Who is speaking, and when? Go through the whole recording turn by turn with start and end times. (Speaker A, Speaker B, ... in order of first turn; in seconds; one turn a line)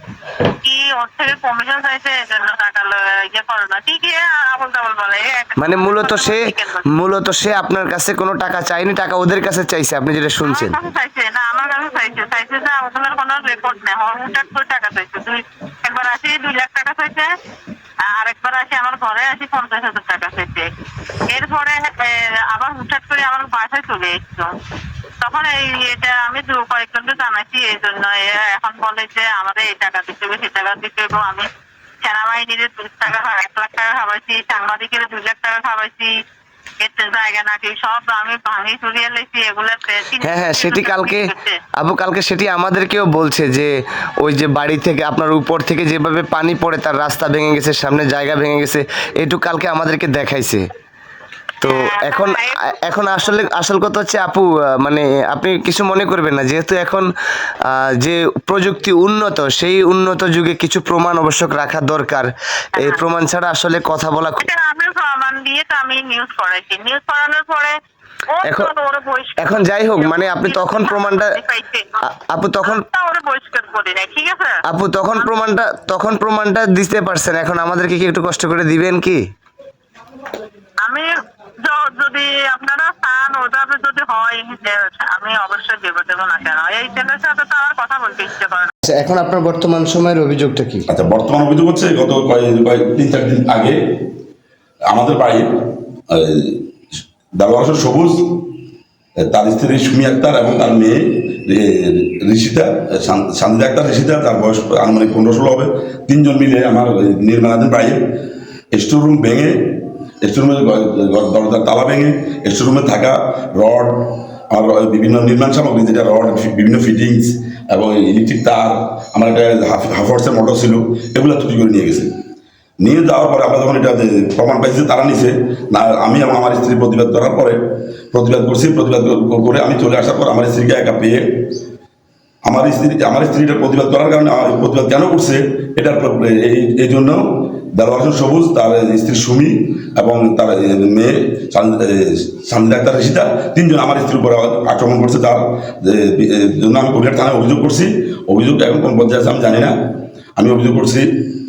Speaker A: 0.4-6.8
Speaker B: 5.6-10.8
Speaker A: 10.4-17.3
Speaker A: 18.1-20.7
Speaker A: 21.3-24.5
Speaker A: 25.2-31.5
Speaker A: 32.0-36.1
Speaker A: 36.8-41.6
Speaker B: 40.2-50.7
Speaker B: 51.6-57.1
Speaker A: 51.6-53.4
Speaker B: 57.6-64.4
Speaker A: 62.8-63.0
Speaker A: 64.4-67.8
Speaker A: 68.3-72.0
Speaker B: 68.4-68.7
Speaker B: 69.4-71.4
Speaker B: 72.0-72.8
Speaker A: 72.6-74.6
Speaker B: 74.6-79.2
Speaker A: 81.6-88.7
Speaker B: 88.8-90.9
Speaker C: 90.9-93.8
Speaker C: 94.9-95.5
Speaker C: 96.1-96.6
Speaker C: 97.3-98.4
Speaker C: 99.2-108.0
Speaker C: 108.7-122.1
Speaker C: 122.8-127.6
Speaker C: 128.1-131.2
Speaker C: 132.4-149.8
Speaker C: 150.4-151.3